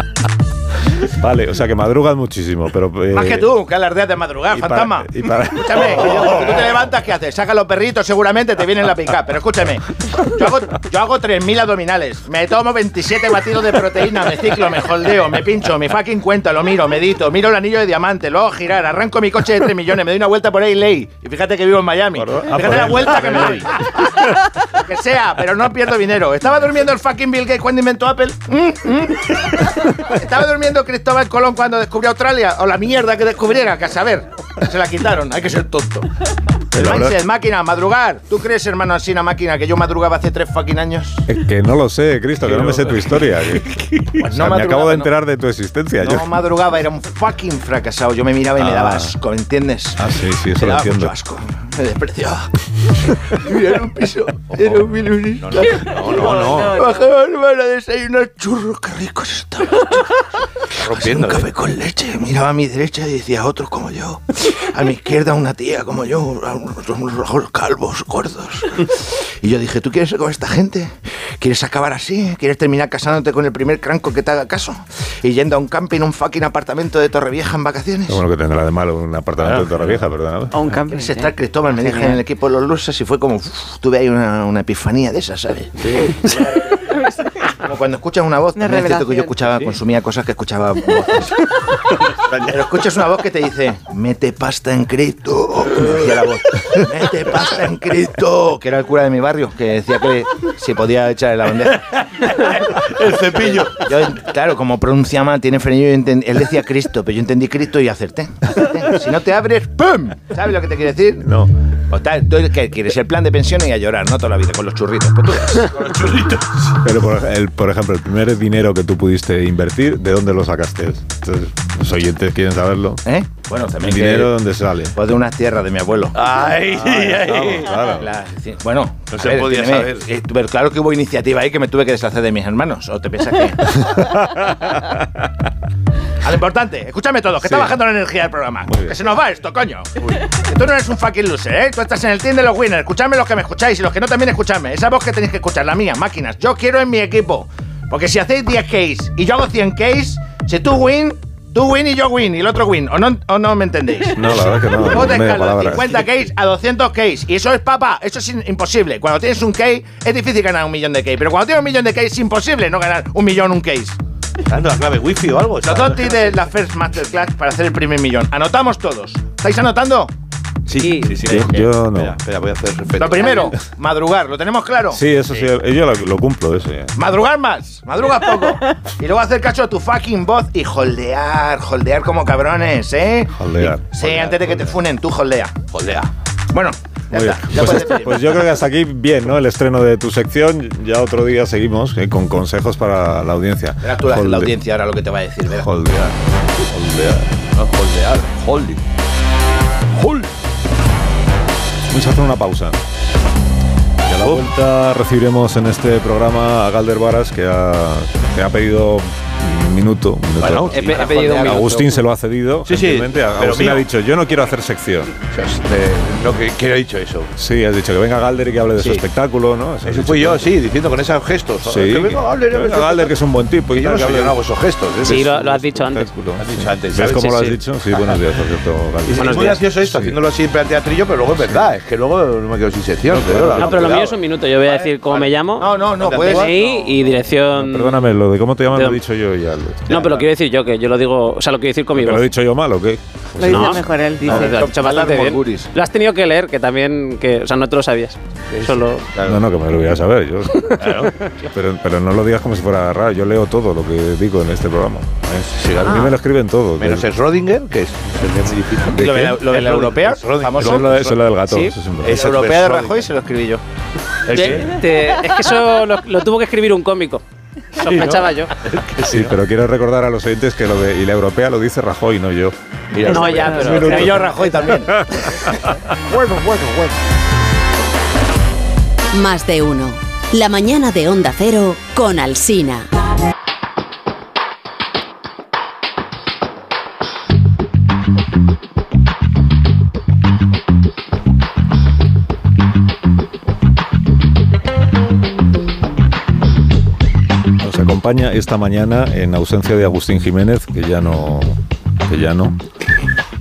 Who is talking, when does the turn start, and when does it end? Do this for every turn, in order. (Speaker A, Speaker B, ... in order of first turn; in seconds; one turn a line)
Speaker A: 1.0-3.5
Speaker B: 3.1-36.1
Speaker A: 4.5-6.5
Speaker A: 22.1-23.7
Speaker A: 36.7-37.2
Speaker B: 36.7-41.2
Speaker A: 41.3-46.3
Speaker C: 42.6-42.9
Speaker B: 44.2-45.1
Speaker B: 46.0-78.2
Speaker A: 48.6-49.1
Speaker A: 50.0-51.1
Speaker C: 54.6-54.8
Speaker C: 55.4-56.8
Speaker D: 56.5-56.8
Speaker C: 60.7-61.5
Speaker A: 78.1-80.5
Speaker C: 79.4-80.0
Speaker D: 80.5-82.2
Speaker B: 80.9-85.7
Speaker C: 85.8-86.2
Speaker B: 87.6-91.5
Speaker D: 88.5-89.3
Speaker B: 92.1-102.5
Speaker C: 102.2-103.9
Speaker B: 103.3-111.3
Speaker A: 111.2-111.5
Speaker B: 111.9-115.8
Speaker C: 115.7-116.7
Speaker A: 116.8-123.0
Speaker B: 123.0-124.3
Speaker A: 123.8-125.0
Speaker B: 124.9-126.2
Speaker C: 126.1-127.7
Speaker A: 126.7-128.1
Speaker B: 127.8-133.9
Speaker C: 129.1-130.1
Speaker A: 133.8-135.0
Speaker B: 136.2-164.0
Speaker A: 137.4-137.8
Speaker A: 138.6-139.0
Speaker A: 154.1-155.9
Speaker C: 164.5-166.3
Speaker B: 165.6-170.1
Speaker C: 170.7-173.5
Speaker E: 170.8-171.2
Speaker A: 171.2-172.2
Speaker B: 173.0-175.0
Speaker A: 174.9-176.9
Speaker B: 176.9-185.5
Speaker A: 183.3-183.9
Speaker C: 184.0-184.6
Speaker C: 185.7-186.1
Speaker B: 186.5-188.3
Speaker A: 187.1-194.5
Speaker B: 193.8-195.7
Speaker A: 195.5-197.3
Speaker C: 197.5-198.8
Speaker C: 199.9-200.3
Speaker A: 201.9-202.8
Speaker A: 204.1-215.1
Speaker C: 204.1-204.4
Speaker C: 210.4-210.8
Speaker E: 210.7-212.0
Speaker B: 210.8-211.8
Speaker C: 212.7-213.8
Speaker C: 215.3-217.3
Speaker A: 217.3-220.5
Speaker C: 218.8-219.0
Speaker C: 219.8-223.2
Speaker A: 221.6-224.4
Speaker C: 223.7-225.3
Speaker E: 225.0-226.1
Speaker A: 225.1-230.2
Speaker C: 226.4-228.2
Speaker C: 229.1-235.3
Speaker E: 229.2-229.6
Speaker A: 233.1-233.8
Speaker E: 233.6-238.0
Speaker B: 235.6-236.5
Speaker C: 235.9-236.9
Speaker A: 237.5-240.1
Speaker E: 238.7-239.0
Speaker E: 239.9-242.3
Speaker A: 241.9-243.9
Speaker D: 243.4-244.6
Speaker E: 243.4-249.1
Speaker B: 244.2-245.7
Speaker C: 248.5-249.4
Speaker A: 249.2-257.1
Speaker C: 250.8-251.1
Speaker C: 255.3-256.1
Speaker C: 256.8-261.2
Speaker B: 258.9-261.0
Speaker A: 260.6-262.2
Speaker E: 261.5-261.7
Speaker C: 262.0-263.1
Speaker B: 262.1-263.6
Speaker C: 264.3-264.8
Speaker E: 264.3-267.2
Speaker E: 267.8-268.5
Speaker C: 267.8-269.4
Speaker A: 269.1-272.5
Speaker C: 272.9-274.2
Speaker E: 273.1-274.4
Speaker A: 273.2-274.3
Speaker D: 273.3-273.6
Speaker B: 273.6-275.1
Speaker A: 274.9-275.8
Speaker C: 276.1-276.9
Speaker F: 279.1-282.9
Speaker A: 297.6-302.6